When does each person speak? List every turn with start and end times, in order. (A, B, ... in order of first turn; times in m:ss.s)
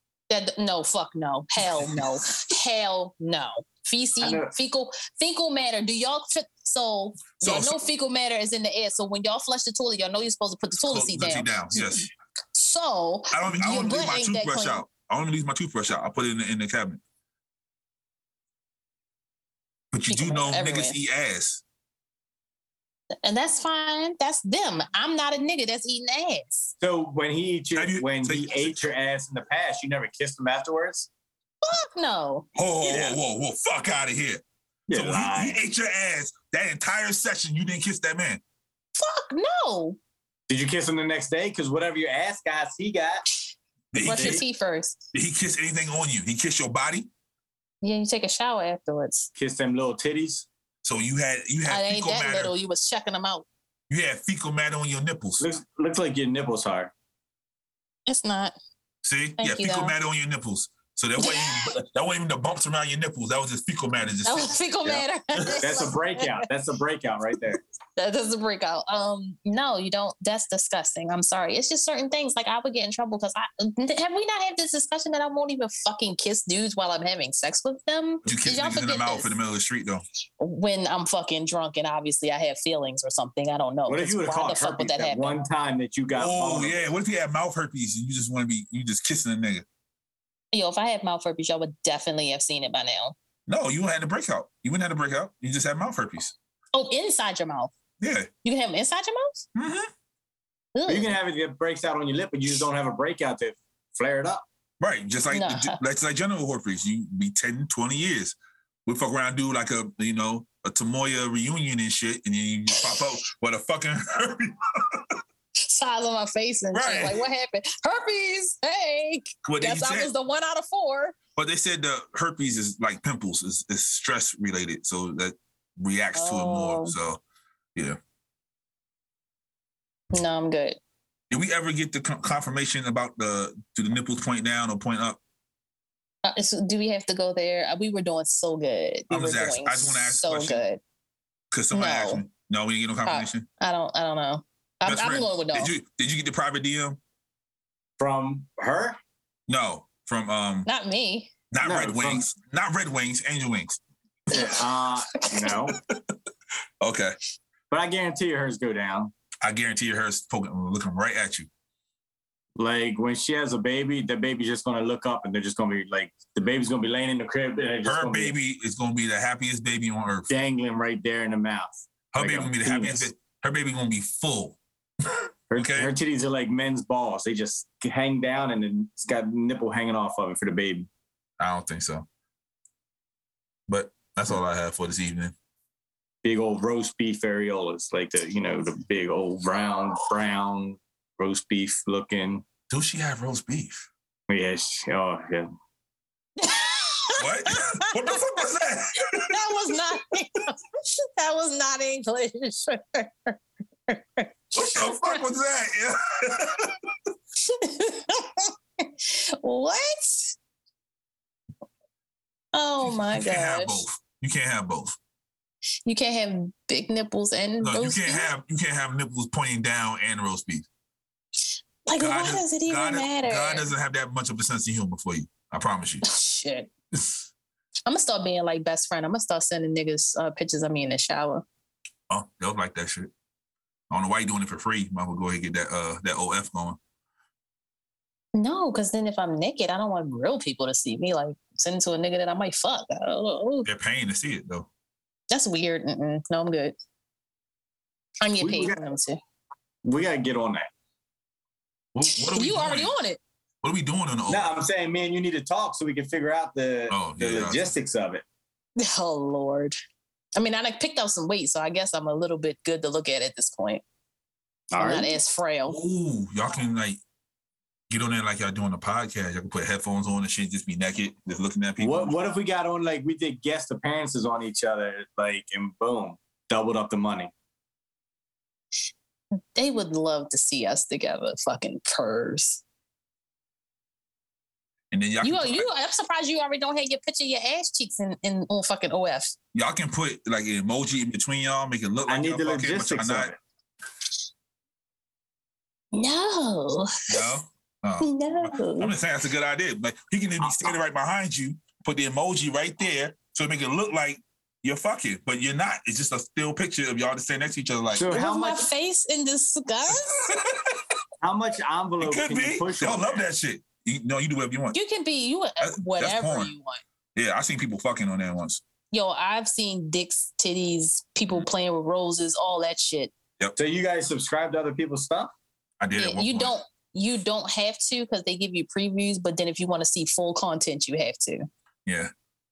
0:00.3-0:14.8 A
0:01.8-0:02.0 B
0:04.2-0:04.5 C
0:07.4-0:07.8 B
0:10.9-0:12.0 B
0:13.3-0:17.0 B
0:19.9-0:21.6 B
0:20.1-0:21.0 A
0:23.2-0:26.7 A
0:26.8-0:31.1 C
0:27.7-0:28.9 B
0:31.6-0:33.2 A
0:32.5-0:38.4 B
0:34.9-0:35.6 C
0:39.0-0:40.0 A
0:40.5-0:43.2 C
0:43.9-0:44.4 B
0:44.0-0:45.0 A
0:44.1-0:44.4 C
0:45.1-0:47.1 B
0:47.8-0:49.3 A
0:49.4-0:50.5 C
0:50.8-0:52.5 B
0:51.7-0:53.4 A
0:53.9-0:55.4 B
0:55.4-0:56.9 C
0:58.1-0:58.6 A
0:59.0-1:05.6 B
0:59.4-0:59.9 A
1:01.2-1:01.7 A
1:04.2-1:06.4 A
1:05.6-1:07.6 C
1:08.0-1:19.3 A
1:18.2-1:20.0 B
1:20.4-1:25.4 A
1:23.9-1:26.8 C
1:26.1-1:29.6 B
1:30.5-1:33.1 A
1:33.5-1:36.3 B
1:36.7-1:37.7 A
1:38.0-1:38.3 B
1:38.4-1:39.4 A
1:39.5-1:39.9 B
1:40.7-1:41.2 A
1:40.9-1:44.4 C
1:44.8-1:55.2 B
1:45.3-1:45.8 A
1:55.6-2:01.2 A
1:56.7-1:57.2 B
1:59.4-2:00.1 B
2:01.4-2:07.2 B
2:06.1-2:07.0 A
2:10.1-2:10.8 A
2:11.3-2:15.2 B
2:16.2-2:20.8 A
2:19.1-2:20.6 B
2:21.5-2:23.4 B
2:21.7-2:22.2 A
2:23.0-2:25.7 A
2:24.8-2:27.0 B
2:28.0-2:29.0 C
2:29.5-2:30.7 B
2:30.6-2:31.3 A
2:31.5-2:33.8 B
2:31.6-2:32.2 C
2:34.3-2:35.8 C
2:35.7-2:36.1 B
2:36.8-2:37.2 B
2:37.7-2:39.1 C
2:39.4-2:41.5 B
2:42.6-2:48.3 C
2:47.8-2:50.3 B
2:50.3-2:53.1 C
2:52.1-2:55.9 B
2:55.5-3:00.9 C
3:01.4-3:02.0 B
3:03.7-3:05.3 B
3:06.2-3:12.4 C
3:12.7-3:13.9 B
3:14.3-3:15.5 C
3:16.4-3:18.4 A
3:17.2-3:19.7 B
3:19.0-3:25.2 A
3:24.5-3:26.8 B
3:27.4-3:30.4 A
3:32.5-3:33.8 A
3:32.8-3:35.0 B
3:35.8-3:38.3 A
3:37.6-3:40.6 B
3:41.8-3:43.7 A
3:42.0-3:46.0 B
3:46.0-3:46.7 A
3:47.8-3:51.4 A
3:52.1-3:53.1 B
3:53.9-3:56.8 B
3:58.3-4:03.7 A
4:03.6-4:04.7 B
4:05.3-4:06.7 A
4:08.2-4:09.2 A
4:08.4-4:08.8 C
4:09.8-4:10.7 C
4:11.9-4:12.9 B
4:12.1-4:13.2 A
4:13.6-4:14.6 B
4:14.3-4:18.2 C
4:16.9-4:17.7 B
4:18.8-4:19.7 A
4:20.4-4:23.8 A
4:24.7-4:25.2 C
4:24.8-4:25.8 A
4:25.7-4:27.0 B
4:27.9-4:32.2 B
4:31.8-4:37.3 C
4:39.5-4:42.6 A
4:44.9-4:45.7 B
4:45.2-4:49.3 A
4:49.5-4:53.3 B
4:52.1-4:53.4 C
4:55.9-4:57.0 A
4:57.1-5:08.1 B
4:58.0-4:58.9 A
5:07.9-5:08.7 C
5:08.1-5:10.3 A
5:09.9-5:10.8 B
5:11.2-5:13.2 C
5:12.0-5:14.8 B
5:14.7-5:16.8 A
5:15.6-5:16.5 B
5:17.1-5:18.6 B
5:18.9-5:23.1 A
5:23.6-5:25.3 C
5:25.8-5:26.5 B
5:26.0-5:31.5 A
5:31.8-5:32.1 B